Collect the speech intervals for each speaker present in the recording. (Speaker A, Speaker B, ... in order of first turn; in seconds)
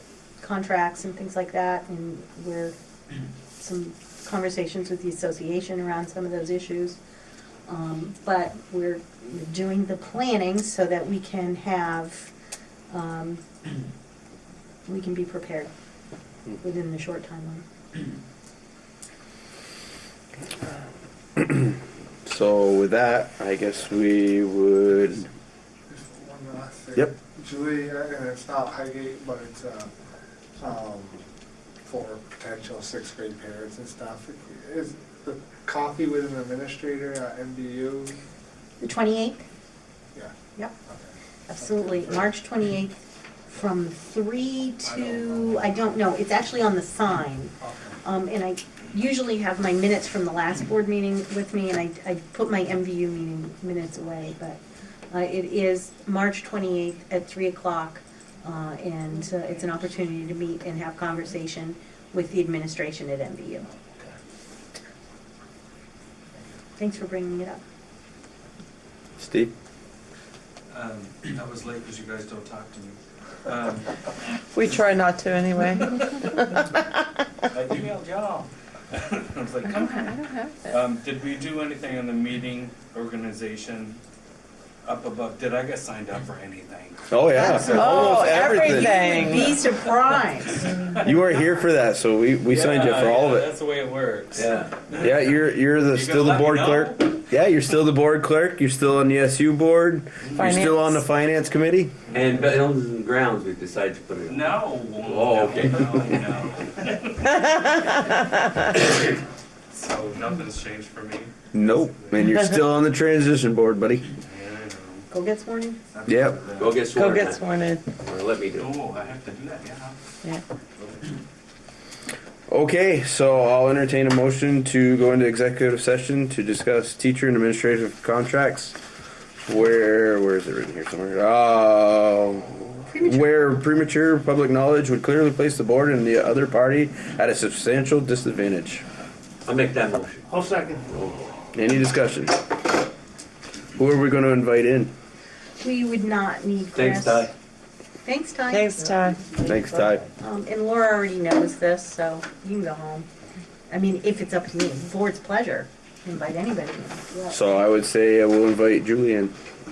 Speaker A: 0.4-2.8, 3.6-7.0, 7.7-12.3, 12.9-13.4, 14.8-15.7, 16.6-17.6, 38.8-39.5, 41.5-43.0, 43.5-54.6, 55.1-63.7, 66.8-67.6, 88.7-90.7, 115.1-115.8, 132.9-133.5, 145.6-147.3, 148.0-149.4, 150.2-153.1, 153.7-157.3
Speaker B: 21.4-21.7, 22.2-25.3, 69.2-69.5, 87.1-89.0, 91.0-93.5, 95.0-101.9, 111.5-114.0, 116.1-116.4, 122.5-128.8, 129.4-138.8, 141.5-142.4, 143.8-144.9, 149.4-150.0, 157.3-159.3
Speaker C: 25.9-29.9, 30.6-31.2, 31.9-38.1, 41.7-42.2, 47.6-47.9, 140.3-140.8
Speaker D: 70.7-74.0, 74.6-74.9, 75.6-76.0, 77.5-80.1, 80.7-84.0, 84.8-89.5, 90.7-91.0, 92.5-97.2, 100.2-100.6, 102.1-102.6, 104.2-108.2, 108.7-109.2, 109.7-112.3, 114.2-115.1, 115.9-116.8, 118.5-120.0
Speaker E: 74.5-76.7, 79.7-80.7, 87.4-89.6, 100.3-101.0, 107.5-108.2, 116.9-117.9, 148.5-149.3
Speaker F: 94.3-94.8, 102.1-106.2, 116.6-118.8, 139.4-141.3, 146.7-147.3